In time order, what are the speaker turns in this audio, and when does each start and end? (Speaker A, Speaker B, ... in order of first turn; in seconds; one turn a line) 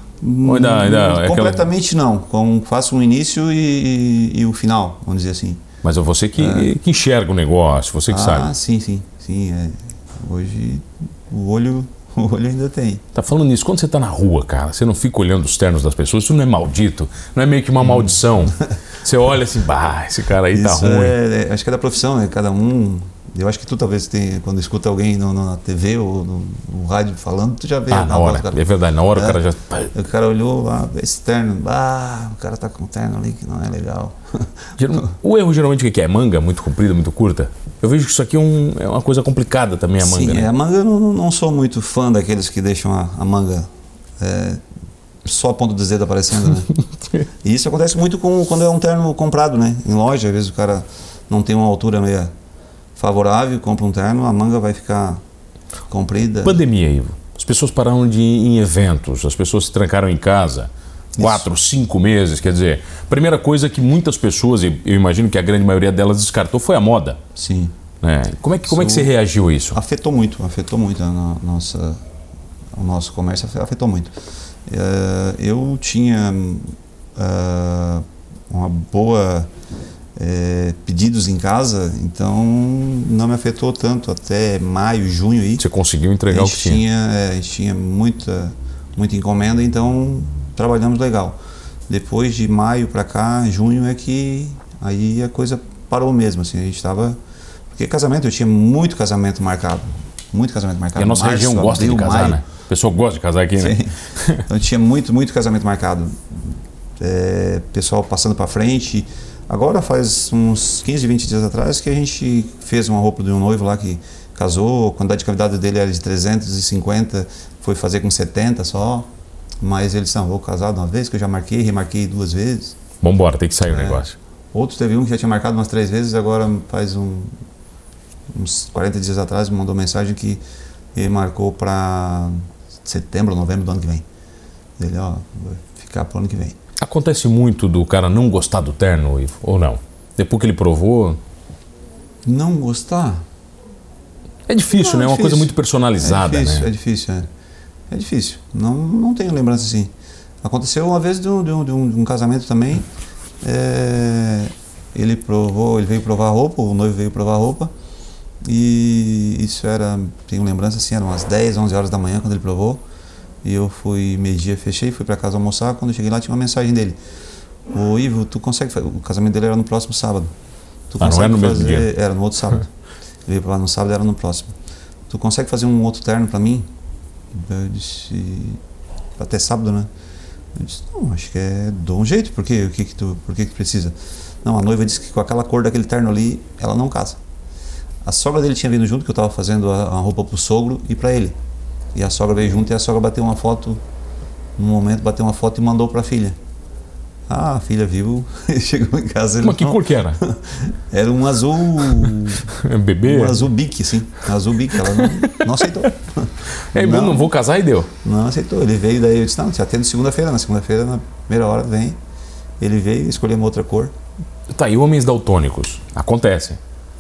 Speaker A: 0.2-5.6
Speaker B: 0.4-1.7
Speaker B: 5.8-8.5
Speaker A: 6.4-6.7
Speaker A: 8.1-13.0
Speaker B: 13.1-21.1
Speaker A: 17.8-18.2
Speaker A: 20.5-28.6
Speaker B: 27.9-29.9
Speaker A: 29.1-29.4
Speaker A: 29.9-35.1
Speaker B: 34.8-40.5
Speaker A: 40.0-43.7
Speaker A: 44.2-44.6
Speaker A: 45.2-46.7
Speaker B: 46.5-47.2
Speaker A: 47.4-52.3
Speaker A: 53.0-55.2
Speaker A: 55.9-56.6
Speaker B: 56.4-67.2
Speaker A: 61.2-61.5
Speaker A: 67.3-67.7
Speaker B: 68.0-69.8
Speaker A: 68.7-69.1
Speaker A: 69.7-72.0
Speaker A: 72.8-74.1
Speaker A: 74.7-79.5
Speaker A: 80.2-85.6
Speaker B: 85.6-86.8
Speaker A: 86.3-91.3
Speaker A: 91.9-97.2
Speaker A: 97.7-102.4
Speaker B: 101.0-104.4
Speaker A: 103.6-119.1
Speaker A: 119.6-122.8
Speaker B: 123.0-124.2
Speaker A: 123.7-127.3
Speaker A: 128.3-130.4
Speaker A: 130.9-134.0
Speaker A: 134.8-136.6
Speaker B: 136.8-141.2
Speaker A: 142.2-143.2
Speaker B: 144.5-146.7
Speaker A: 144.7-147.3
Speaker A: 147.9-149.9
Speaker A: 150.4-152.9
Speaker A: 153.4-157.7
Speaker A: 158.4-162.8
Speaker A: 163.4-167.0
Speaker A: 167.7-170.3
Speaker A: 170.9-172.7
Speaker B: 171.0-171.9
Speaker A: 173.2-174.5
Speaker A: 175.1-176.7
Speaker A: 177.3-178.6
Speaker A: 179.2-179.9
Speaker A: 180.5-187.2
Speaker A: 188.0-191.3
Speaker A: 191.9-193.8
Speaker A: 194.6-196.3
Speaker A: 197.3-202.5
Speaker B: 199.4-200.2
Speaker B: 202.0-203.4
Speaker A: 203.0-207.3
Speaker B: 204.7-205.8
Speaker B: 206.7-207.9
Speaker A: 208.0-212.0
Speaker A: 212.6-213.9
Speaker B: 214.5-216.6